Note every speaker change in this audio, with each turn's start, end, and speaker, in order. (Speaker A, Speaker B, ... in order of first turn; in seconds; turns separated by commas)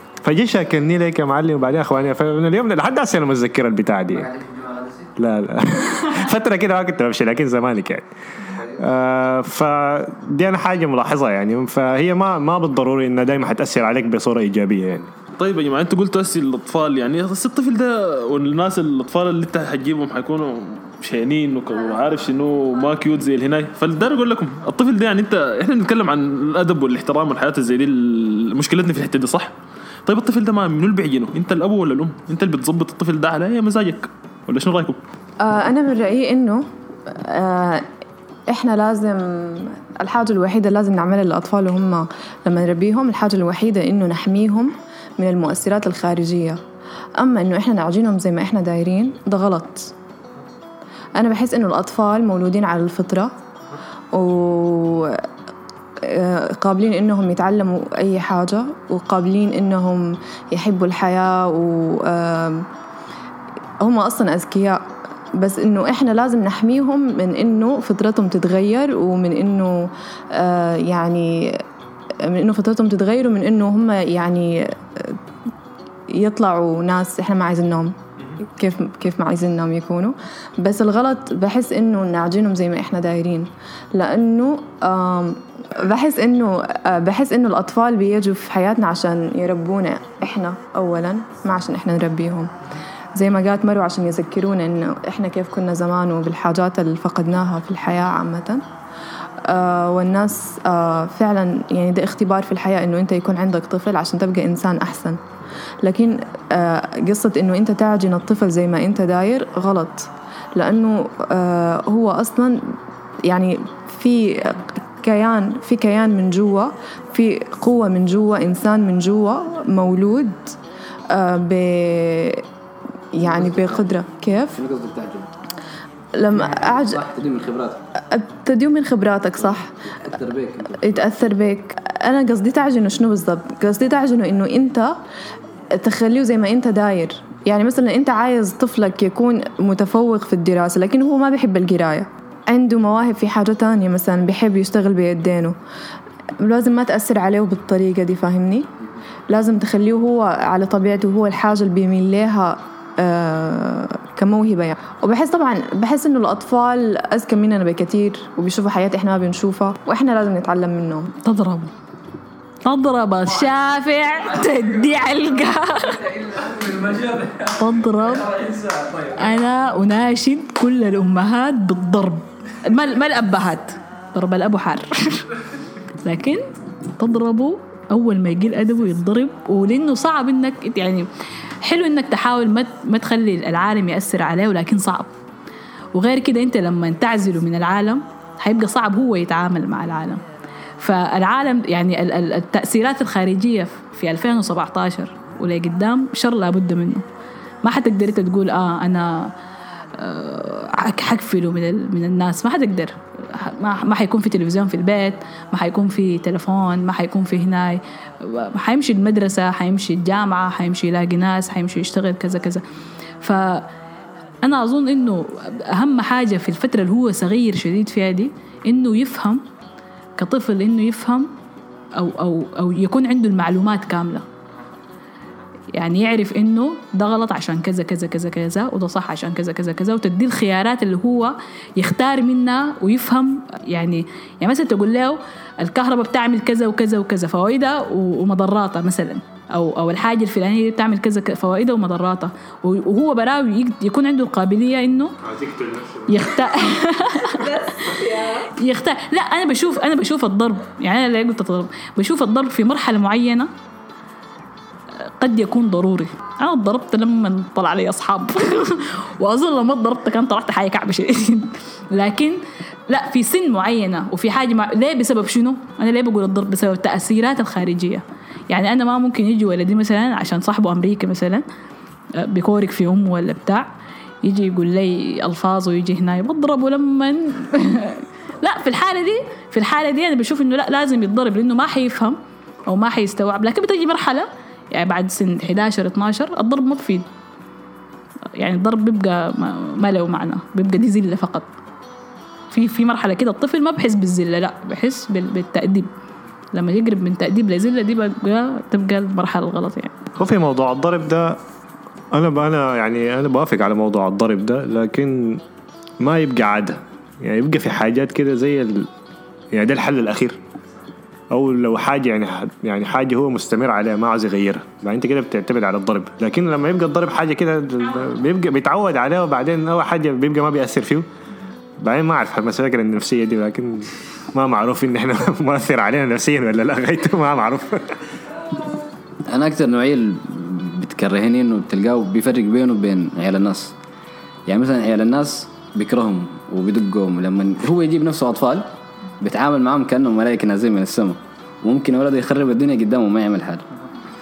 Speaker A: 0.2-4.3, Speaker B: 4.2-5.1, Speaker A: 5.2-8.1, Speaker B: 8.5-8.8, Speaker A: 8.7-15.1, Speaker C: 15.4-29.5, Speaker C: 30.1-35.0, Speaker D: 35.4-37.9, Speaker D: 38.5-46.6, Speaker D: 47.2-49.9, Speaker D: 51.2-53.3, Speaker D: 54.1-55.2, Speaker D: 56.0-62.6, Speaker D: 63.8-64.8, Speaker D: 65.3-71.6, Speaker D: 72.2-75.2, Speaker D: 76.1-77.9, Speaker D: 78.5-92.5, Speaker D: 93.2-98.6, Speaker D: 99.5-105.2, Speaker D: 105.8-112.7, Speaker D: 113.2-120.5, Speaker D: 121.1-122.4, Speaker D: 123.1-124.5, Speaker B: 123.2-123.9, Speaker B: 124.5-125.3, Speaker D: 126.2-127.0, Speaker B: 126.3-127.8, Speaker D: 128.0-129.7, Speaker B: 130.0-131.0, Speaker D: 130.8-135.0, Speaker D: 135.8-145.6, Speaker D: 146.4-148.7, Speaker D: 149.3-161.1, Speaker E: 161.2-161.7, Speaker E: 162.6-166.1, Speaker B: 166.0-169.2, Speaker E: 167.4-168.4, Speaker E: 169.1-175.4, Speaker E: 176.0-176.4, Speaker E: 177.0-181.1, Speaker E: 181.6-185.1, Speaker E: 185.9-190.2, Speaker E: 190.8-197.0, Speaker E: 197.6-199.3, Speaker E: 199.9-212.6, Speaker E: 213.2-213.7, Speaker E: 214.4-219.4, Speaker E: 220.2-221.3, Speaker E: 221.9-224.2, Speaker E: 225.7-245.2, Speaker A: 245.2-246.3, Speaker E: 246.1-253.5, Speaker D: 247.8-248.3, Speaker E: 255.0-271.4, Speaker E: 272.1-273.7, Speaker E: 274.2-287.1, Speaker E: 288.4-291.5, Speaker E: 292.5-295.9, Speaker E: 296.5-299.9, Speaker A: 300.2-301.4, Speaker A: 302.1-305.4, Speaker A: 306.0-308.9, Speaker A: 309.5-310.4, Speaker A: 311.3-321.1, Speaker A: 321.8-328.0, Speaker B: 329.3-333.7, Speaker B: 334.5-338.7, Speaker B: 339.2-343.6